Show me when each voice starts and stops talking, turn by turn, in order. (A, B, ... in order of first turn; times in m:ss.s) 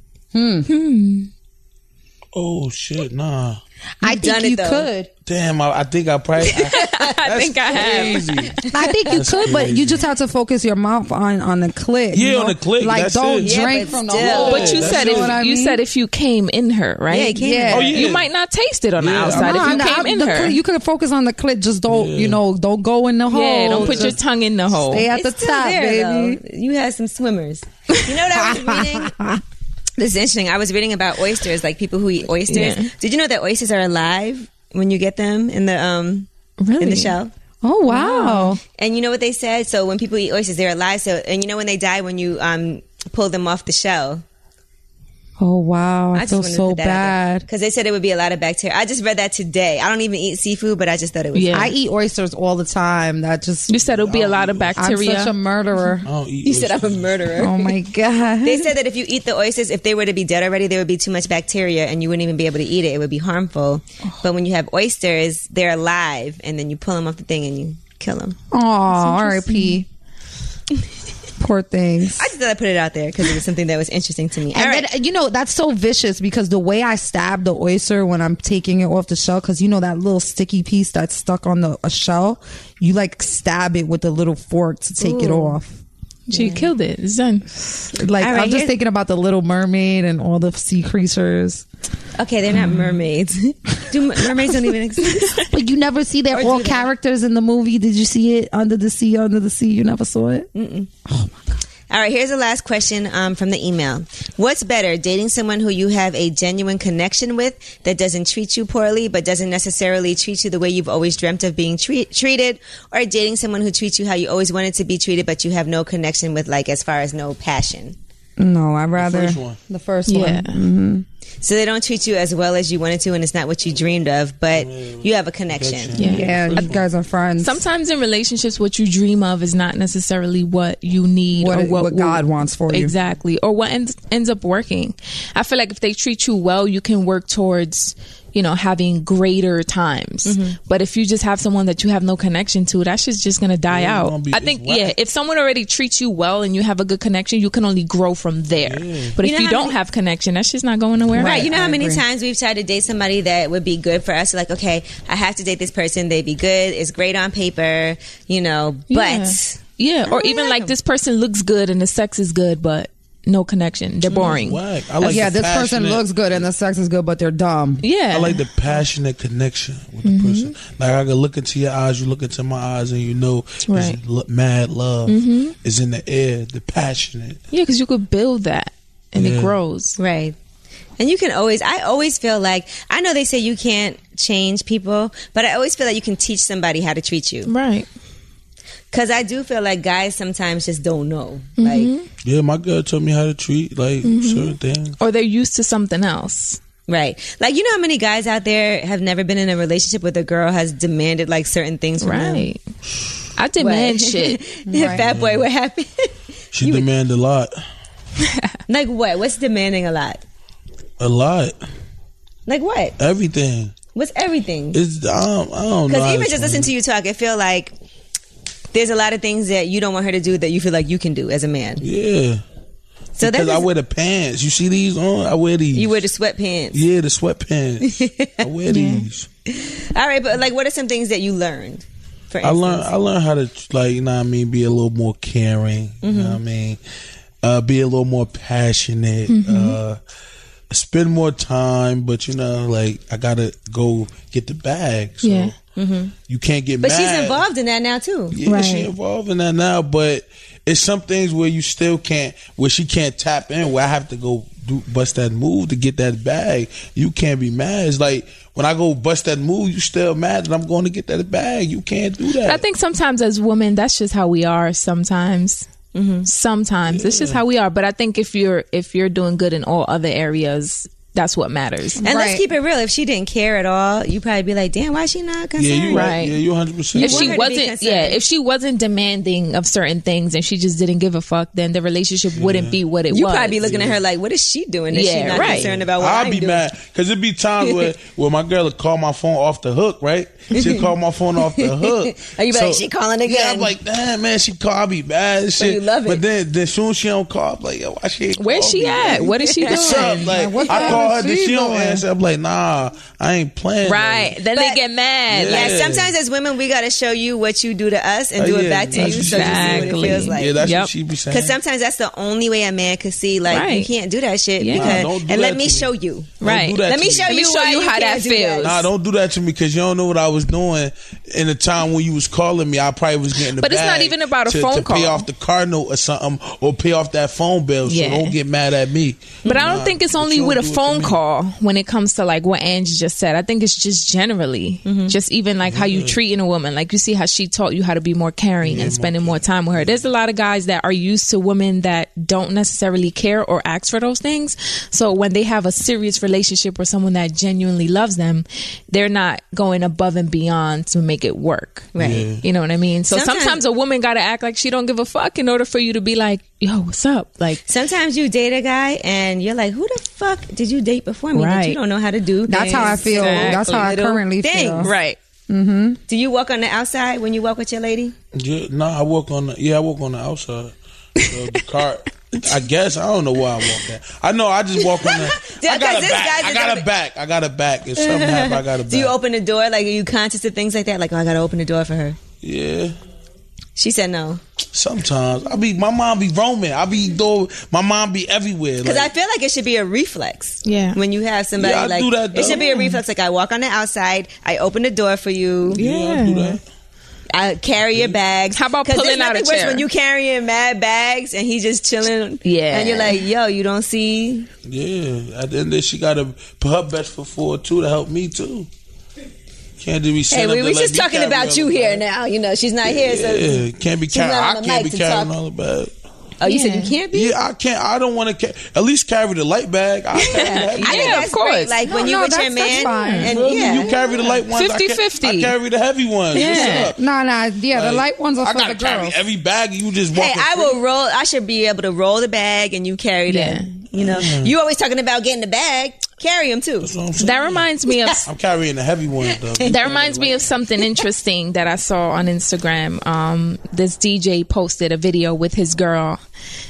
0:00.3-0:00.7 A
0:00.7-0:01.3 B
0:02.3-0:03.6 C
0:04.0-0:05.1 A
0:04.0-0:04.9 D
0:05.3-0:08.6 C
0:06.5-0:07.1 D
0:06.6-0:08.7 B
0:07.7-0:09.1 D
0:08.7-0:15.8 A
0:09.1-0:10.0 C
0:12.1-0:15.4 C
0:13.4-0:14.9 D
0:14.3-0:20.6 B
0:17.1-0:18.0 D
0:17.4-0:18.1 A
0:17.7-0:18.3 C
0:19.0-0:19.9 C
0:19.3-0:24.2 A
0:21.9-0:22.4 C
0:23.3-0:25.1 B
0:23.8-0:24.2 D
0:24.8-0:26.4 A
0:25.1-0:29.1 D
0:28.3-0:29.4 A
0:30.0-0:36.3 D
0:32.5-0:32.9 B
0:36.6-0:37.2 B
0:36.8-0:37.3 D
0:37.6-0:38.6 A
0:37.9-0:38.6 B
0:38.8-0:44.2 D
0:45.4-0:47.5 A
0:46.1-0:51.7 D
0:51.3-0:51.7 B
0:51.5-0:53.8 A
0:53.7-0:55.4 B
0:53.8-0:54.9 C
0:54.8-0:56.1 A
0:56.0-0:57.3 C
0:56.4-0:57.8 D
0:57.4-0:58.8 A
0:58.4-1:08.4 D
1:08.5-1:09.9 A
1:08.9-1:09.8 B
1:11.4-1:12.3 A
1:12.2-1:14.9 D
1:14.5-1:25.8 A
1:25.0-1:25.5 D
1:26.3-1:27.5 B
1:26.3-1:26.7 D
1:27.9-1:31.6 A
1:28.2-1:28.7 D
1:32.2-1:35.4 D
1:35.5-1:40.5 A
1:36.3-1:36.9 D
1:40.5-1:40.9 D
1:41.1-1:41.4 A
1:41.9-1:58.0 D
1:58.4-2:01.0 A
1:59.0-1:59.6 C
2:00.1-2:00.6 B
2:01.4-2:06.0 D
2:04.5-2:06.8 C
2:06.0-2:06.7 B
2:06.0-2:07.6 A
2:07.4-2:31.5 B
2:11.3-2:12.9 A
2:20.2-2:20.6 D
2:23.7-2:24.9 C
2:28.6-2:29.1 C
2:29.2-2:29.8 D
2:31.2-2:32.0 A
2:31.2-2:40.7 D
2:38.9-2:44.6 B
2:44.1-2:46.4 C
2:45.0-2:47.8 A
2:47.8-2:48.5 B
2:48.1-2:57.4 C
2:50.0-2:50.5 B
2:53.7-2:54.0 B
2:55.1-2:55.6 B
2:57.5-3:00.0 B
2:59.2-2:59.6 C
3:00.0-3:00.4 D
3:01.0-3:07.5 D
3:07.5-3:07.9 B
3:08.9-3:11.9 D
3:11.6-3:12.1 B
3:12.2-3:15.0 C
3:14.0-3:16.6 B
3:16.9-3:22.5 D
3:22.0-3:22.6 B
3:23.4-3:24.4 B
3:23.6-3:26.9 D
3:24.7-3:25.0 A
3:24.8-3:25.4 C
3:26.5-3:27.5 C
3:28.7-3:30.2 D
3:31.0-3:31.6 C
3:32.5-3:33.0 D
3:33.0-3:33.7 C
3:34.0-3:34.8 D
3:34.7-3:36.7 C
3:35.9-3:37.7 D
3:38.7-3:41.8 D
3:41.8-3:42.4 C
3:43.2-3:43.7 D
3:43.2-3:46.0 C
3:45.7-3:46.8 D
3:46.7-3:49.3 C
3:47.9-3:48.5 D
3:48.7-3:49.1 B
3:49.5-3:52.9 D
3:52.4-3:56.8 C
3:56.0-3:56.4 D
3:57.4-4:00.0 C
3:59.3-3:59.8 B
4:00.7-4:05.6 C
4:05.2-4:05.5 B
4:05.8-4:06.1 D
4:06.3-4:07.4 C
4:06.8-4:08.4 D
4:08.3-4:22.6 C
4:08.4-4:08.9 B
4:22.4-4:25.7 B
4:26.0-4:26.3 D
4:26.2-4:32.0 B
4:26.9-4:27.4 C
4:32.0-4:32.4 A
4:32.0-4:36.1 D
4:35.6-4:37.4 C
4:35.9-4:36.4 B
4:36.9-4:43.6 B
4:37.0-4:38.2 D
4:42.4-4:42.8 C
4:43.1-4:46.6 D
4:43.6-4:44.0 C
4:44.9-4:45.7 B
4:45.3-5:04.4 C
4:47.6-4:47.9 D
4:50.5-4:53.7 D
4:55.6-4:56.2 D
4:58.4-5:01.0 B
4:59.3-4:59.9 D
4:59.8-5:02.0 A
5:03.8-5:05.8 B
5:04.6-5:04.8 D
5:05.3-5:06.1 C
5:05.4-5:10.6 D
5:08.4-5:11.6 C
5:08.9-5:10.9 B
5:11.3-5:18.8 D
5:13.5-5:13.9 B
5:14.6-5:15.1 B
5:14.7-5:17.4 C
5:16.4-5:18.9 B
5:18.6-5:31.2 C
5:23.4-5:25.3 B
5:27.8-5:28.4 B
5:29.5-5:57.6 B
5:34.9-5:35.1 D
5:35.7-5:36.2 C
5:38.6-5:40.0 C
5:52.0-5:52.3 D
5:52.0-5:52.4 C
5:53.1-5:53.6 D
5:57.7-6:04.9 D
6:01.3-6:01.8 B
6:02.5-6:04.9 A
6:02.9-6:04.0 B
6:04.8-6:05.2 B
6:05.5-6:06.0 A
6:06.1-6:08.1 D
6:08.3-6:19.2 C
6:14.9-6:16.9 D
6:18.0-6:22.2 D
6:22.4-6:23.0 C
6:23.8-6:24.4 D
6:24.7-6:29.1 C
6:28.8-6:35.8 D
6:30.6-6:31.0 B
6:31.6-6:32.9 C
6:32.5-6:32.9 B
6:35.7-6:36.6 C
6:35.8-6:36.6 B
6:37.3-6:44.5 D
6:37.9-6:38.2 C
6:38.5-6:39.9 B
6:42.4-6:43.2 B
6:44.6-6:48.7 C
6:49.8-6:52.0 C
6:50.3-6:55.3 D
6:52.8-6:55.9 C
6:56.4-6:57.4 D
6:56.5-6:56.9 B
6:57.1-7:01.3 C
7:00.2-7:04.3 D
7:00.3-7:01.8 B
7:01.8-7:03.7 A
7:02.7-7:03.3 B
7:03.3-7:07.0 C
7:04.5-7:05.5 B
7:06.3-7:06.9 B
7:06.3-7:06.9 D
7:07.0-7:09.2 A
7:07.7-7:10.8 C
7:10.1-7:16.9 D
7:13.3-7:13.7 B
7:13.9-7:14.5 C
7:16.8-7:17.6 C
7:17.2-7:18.3 B
7:18.3-7:20.5 C
7:19.3-7:19.7 D
7:19.6-7:26.2 B